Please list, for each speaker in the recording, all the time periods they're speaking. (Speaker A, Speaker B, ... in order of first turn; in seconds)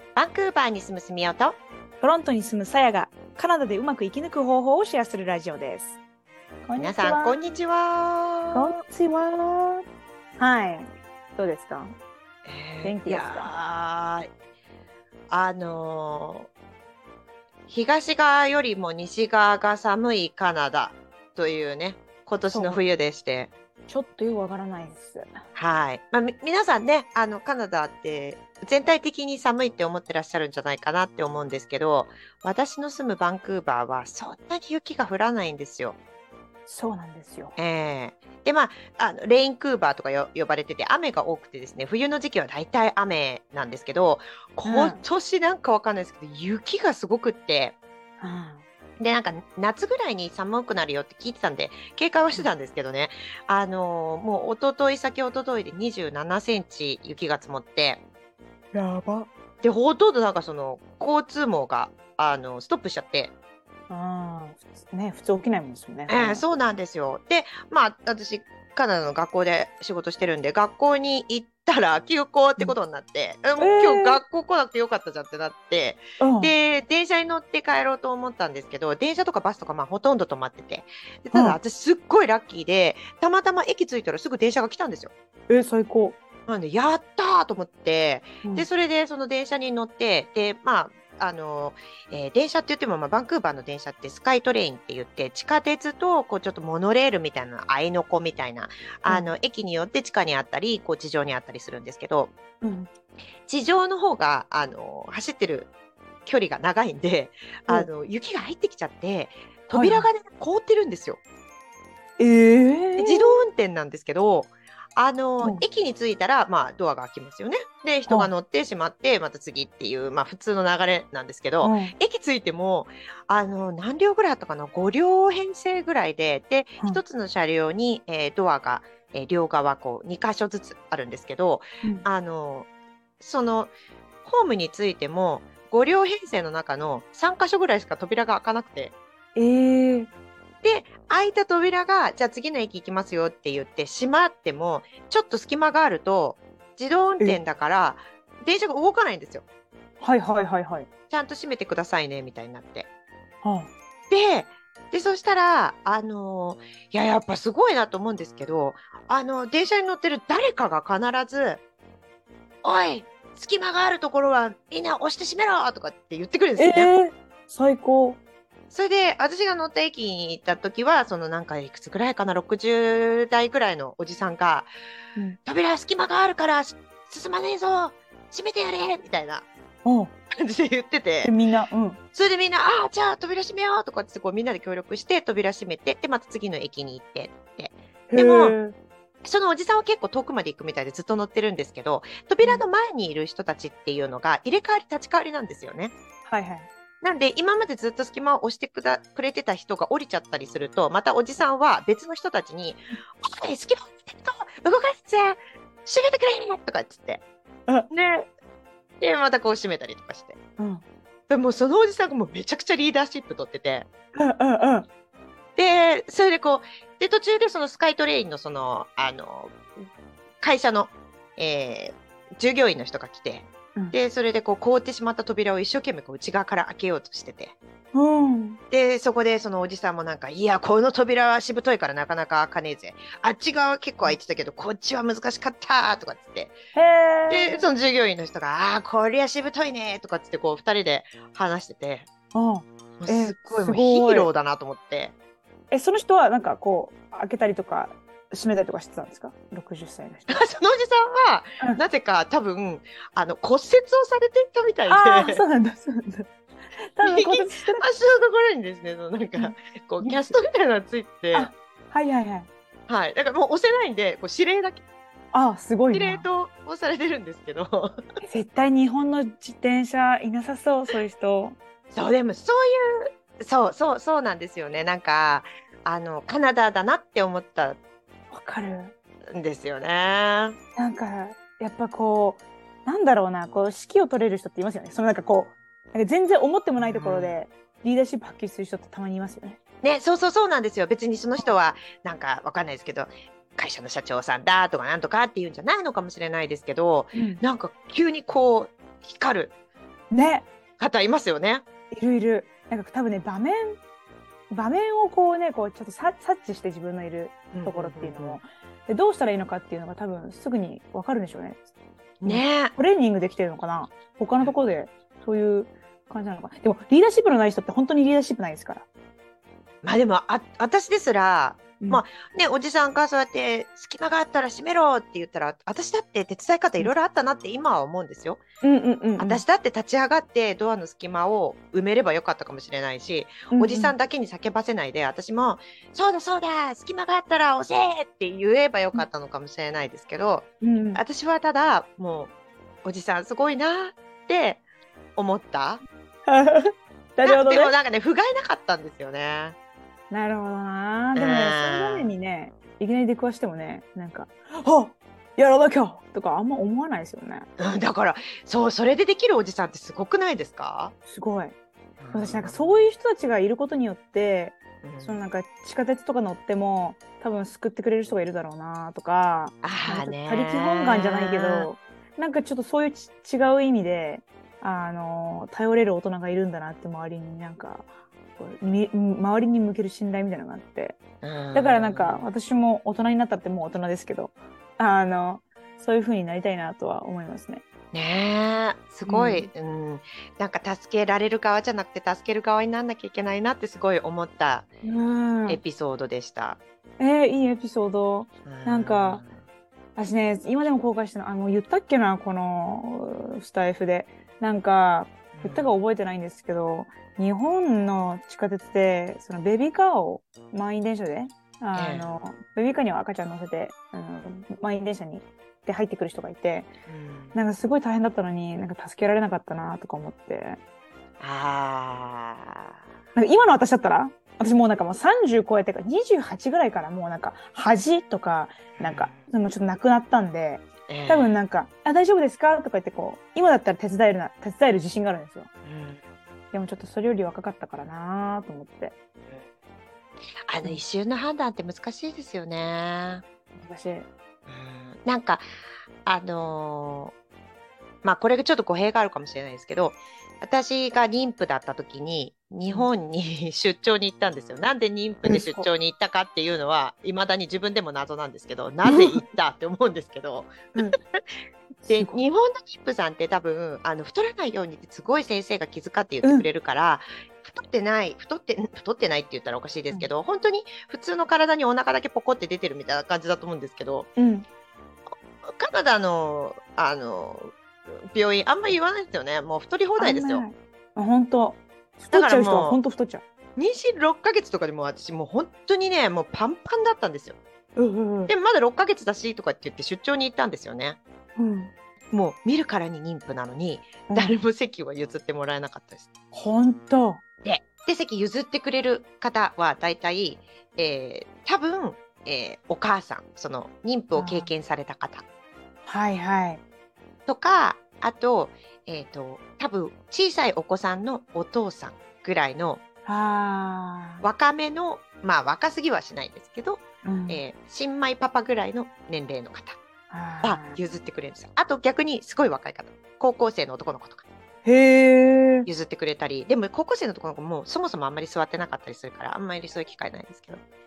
Speaker A: 0.1-1.6, 6.8-8.7, 12.5-14.3, 15.3-16.5, 17.7-23.5, 25.6-36.0, 37.5-47.8, 49.0-58.0, 59.6-63.3, 66.1-85.1, 86.5-102.3, 103.5-105.7, 106.2-111.2, 113.0-132.7, 133.2-133.7, 134.2-138.9, 140.6-149.4, 151.1-152.9, 154.1-161.6, 162.6-166.9, 168.7-174.7, 175.4-179.5, 180.4-181.3, 182.1-188.6, 189.2-195.9, 197.0-207.2, 207.9-208.3, 209.0-210.4, 211.3-213.9, 215.6-219.6, 220.4-227.6, 228.7-236.6, 237.3-242.1, 243.0-245.1, 250.3-255.4, 257.0-261.5, 262.9-264.8, 265.9-268.0, 271.9-277.8, 279.3-280.6, 286.8-287.4, 289.8-299.5, 300.8-301.6, 307.5-308.4, 312.2-312.8, 319.8-328.4, 329.2-342.3, 342.8-344.6, 345.1-345.8, 347.2-349.6, 351.1-352.1, 357.6-360.9, 362.0-362.8, 364.8-365.2, 369.6-371.7, 381.2-382.3, 387.9-394.7, 395.5-396.6, 398.4-399.4, 405.3-405.8, 411.8-412.1, 416.9-417.4, 421.2-422.8, 428.8-429.3, 430.9-431.4, 435.6-436.0, 440.5-443.2, 444.5-445.4, 446.1-447.1, 448.0-461.2, 461.9-474.1, 475.5-477.6, 478.1-480.4, 482.1-482.8, 483.6-487.4, 488.3-491.0, 492.1-496.1, 497.4-505.2, 507.3-512.8, 514.2-519.8, 520.4-524.2, 525.6-530.6
Speaker B: 2.0-6.0, 6.7-7.4, 8.5-9.8, 10.4-12.0, 12.8-13.5, 22.5-22.8, 23.9-25.4, 36.7-37.5, 44.6-45.0, 48.2-48.6, 58.7-59.3, 63.9-66.4, 73.6-74.2, 76.2-76.5, 81.3-81.6, 85.5-86.2, 99.1-99.3, 102.6-102.9, 109.7-110.1, 112.2-113.4, 121.6-121.9, 139.3-140.1, 150.0-150.9, 153.4-153.7, 166.6-168.2, 179.8-180.1, 181.2-182.0, 188.1-188.8, 196.2-196.7, 210.6-210.8, 214.2-214.9, 227.9-228.6, 236.7-237.7, 242.3-244.3, 245.7-250.4, 254.9-256.3, 256.9-257.8, 259.4-260.3, 261.3-262.5, 265.3-266.2, 268.2-271.6, 278.3-278.9, 280.8-289.6, 297.1-297.4, 300.1-300.5, 301.9-303.8, 304.5-311.6, 312.2-318.8, 328.6-329.4, 333.5-333.9, 340.6-341.0, 346.2-347.7, 350.1-357.5, 361.1-361.6, 362.1-381.0, 381.5-387.6, 389.1-389.5, 394.8-395.6, 397.0-399.2, 399.9-416.7, 417.3-420.6, 423.1-435.5, 436.5-438.9, 443.6-444.1, 455.2-455.7, 458.8-459.2, 461.8-462.2, 474.1-474.4, 480.0-483.2, 487.8-488.3, 491.4-491.7, 494.1-494.4, 496.3-497.2, 504.1-504.5, 505.9-506.6, 513.0-514.2, 517.0-517.4, 520.1-520.8, 524.6-525.7